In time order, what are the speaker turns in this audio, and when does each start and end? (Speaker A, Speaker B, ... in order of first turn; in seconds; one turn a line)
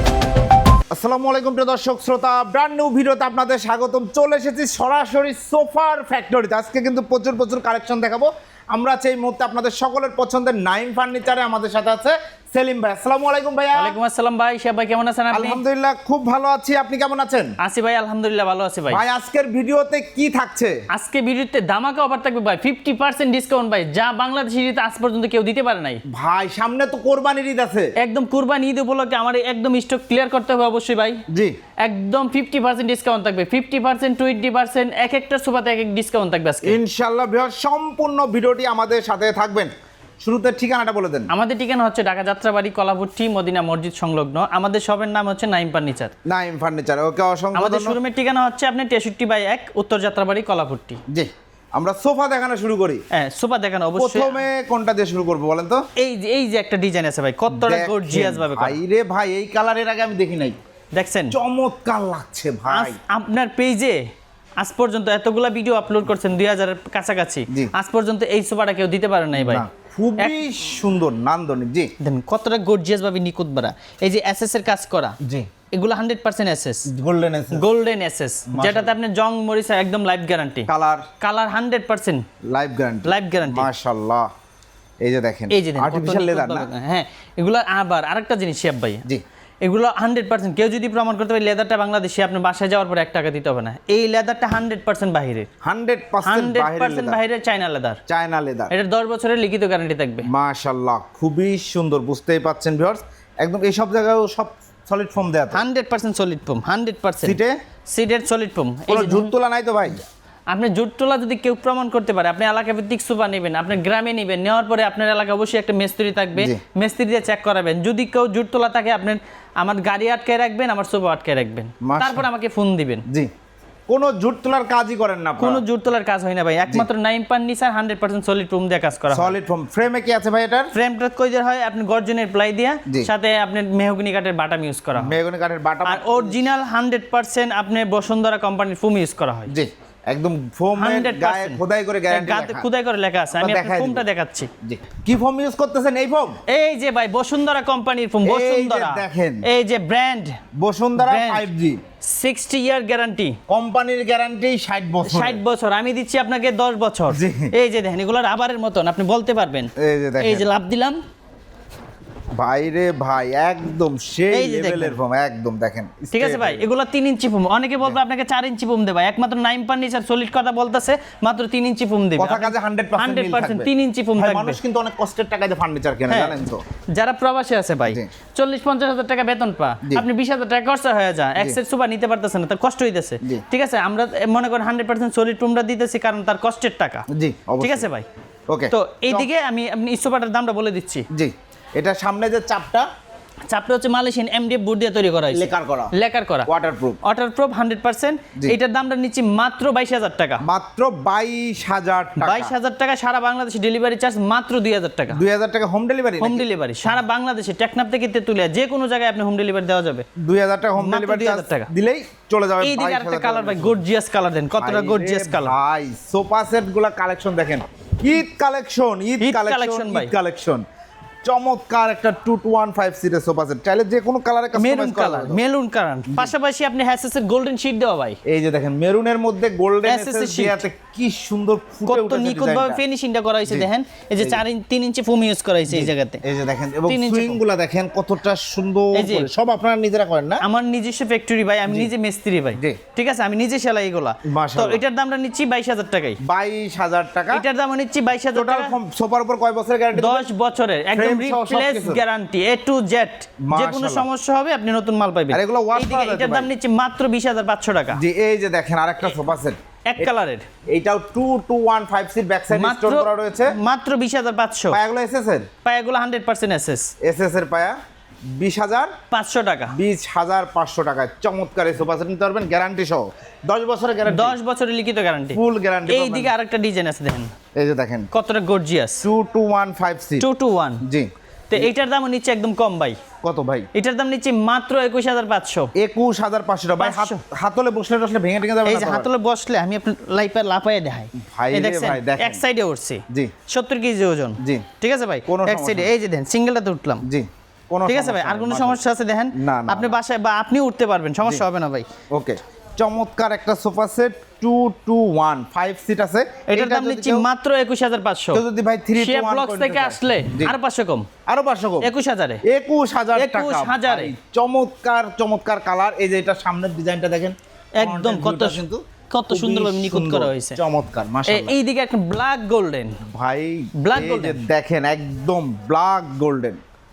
Speaker A: 0.9-13.9
Speaker B: 13.7-15.6
Speaker A: 15.3-17.5
Speaker B: 17.6-19.0
Speaker A: 18.9-20.8
Speaker B: 20.9-26.0
Speaker A: 26.1-27.9
Speaker B: 28.0-31.2
Speaker A: 31.3-31.6
Speaker B: 31.8-36.8
Speaker A: 36.6-41.3
Speaker B: 41.3-46.1
Speaker A: 46.2-48.0
Speaker B: 47.5-51.0
Speaker A: 51.1-53.0
Speaker B: 53.1-54.4
Speaker A: 54.0-55.8
Speaker B: 56.0-58.8
Speaker A: 57.5-60.6
Speaker B: 60.9-61.4
Speaker A: 61.3-63.0
Speaker B: 62.7-64.0
Speaker B: 64.6-69.6
Speaker A: 69.3-71.9
Speaker B: 72.0-75.2
Speaker A: 75.2-75.5
Speaker B: 75.7-76.9
Speaker A: 76.9-77.6
Speaker B: 77.5-80.7
Speaker A: 78.5-79.0
Speaker A: 80.7-81.1
Speaker B: 81.2-82.2
Speaker A: 82.5-84.3
Speaker B: 83.0-83.7
Speaker A: 85.0-86.7
Speaker B: 85.5-89.0
Speaker B: 89.6-95.5
Speaker A: 95.6-97.2
Speaker B: 96.2-98.0
Speaker A: 98.1-98.7
Speaker B: 98.7-100.3
Speaker A: 100.3-105.6
Speaker B: 105.5-109.3
Speaker A: 107.2-107.5
Speaker A: 108.9-110.0
Speaker B: 110.5-123.0
Speaker A: 121.8-122.2
Speaker A: 123.9-125.6
Speaker B: 125.4-129.3
Speaker A: 129.1-130.7
Speaker B: 130.7-135.1
Speaker A: 134.9-136.4
Speaker B: 135.8-139.5
Speaker A: 139.5-142.7
Speaker B: 140.8-141.6
Speaker B: 142.1-144.5
Speaker A: 143.4-144.0
Speaker A: 144.6-146.4
Speaker B: 146.5-150.4
Speaker A: 148.2-149.4
Speaker A: 150.5-151.8
Speaker B: 151.0-151.5
Speaker B: 152.0-153.4
Speaker A: 153.5-155.4
Speaker B: 155.0-161.0
Speaker A: 157.1-157.5
Speaker A: 159.8-160.4
Speaker A: 162.3-166.6
Speaker B: 164.3-165.0
Speaker B: 166.1-174.6
Speaker A: 172.2-176.6
Speaker B: 176.1-176.4
Speaker B: 176.9-187.0
Speaker A: 187.1-187.9
Speaker B: 187.6-188.1
Speaker A: 188.5-189.3
Speaker B: 188.7-191.1
Speaker A: 191.1-192.9
Speaker B: 193.5-196.5
Speaker A: 195.3-195.9
Speaker A: 196.4-197.0
Speaker B: 197.0-200.4
Speaker A: 200.4-202.5
Speaker B: 202.2-205.2
Speaker A: 205.1-206.4
Speaker B: 206.2-210.1
Speaker A: 210.2-213.8
Speaker B: 210.8-211.7
Speaker B: 212.6-215.5
Speaker A: 214.6-220.6
Speaker B: 219.2-220.1
Speaker A: 221.2-225.4
Speaker B: 224.5-228.2
Speaker A: 226.1-226.3
Speaker A: 228.2-232.8
Speaker B: 229.8-230.6
Speaker B: 231.9-236.2
Speaker A: 233.5-234.4
Speaker A: 235.7-240.4
Speaker B: 236.9-237.4
Speaker B: 238.9-239.3
Speaker B: 240.4-246.2
Speaker A: 244.2-244.8
Speaker A: 246.2-247.4
Speaker B: 247.3-248.8
Speaker A: 248.3-250.3
Speaker B: 249.9-258.0
Speaker A: 250.9-252.0
Speaker A: 253.4-254.1
Speaker A: 255.3-256.5
Speaker A: 257.9-260.1
Speaker B: 259.9-260.5
Speaker A: 260.7-263.6
Speaker B: 262.5-264.8
Speaker A: 264.7-265.5
Speaker B: 265.6-266.9
Speaker A: 267.0-267.8
Speaker A: 268.3-268.9
Speaker B: 269.1-269.7
Speaker A: 269.7-274.4
Speaker B: 274.1-277.3
Speaker A: 275.3-276.3
Speaker A: 277.6-278.1
Speaker B: 278.1-279.0
Speaker A: 279.0-280.2
Speaker B: 280.2-280.8
Speaker A: 280.8-281.7
Speaker B: 281.5-283.0
Speaker A: 283.2-283.7
Speaker B: 283.7-285.7
Speaker A: 285.8-289.1
Speaker B: 286.8-287.2
Speaker B: 288.6-297.0
Speaker A: 291.1-292.4
Speaker A: 295.3-295.9
Speaker A: 297.0-298.8
Speaker B: 297.9-301.9
Speaker A: 299.3-300.0
Speaker A: 302.1-307.3
Speaker B: 306.5-308.4
Speaker A: 308.3-310.6
Speaker B: 309.0-311.1
Speaker A: 311.3-311.9
Speaker B: 311.8-312.4
Speaker A: 312.5-321.6
Speaker B: 313.1-314.1
Speaker B: 317.8-320.6
Speaker B: 321.2-323.0
Speaker A: 323.1-326.6
Speaker B: 323.8-324.4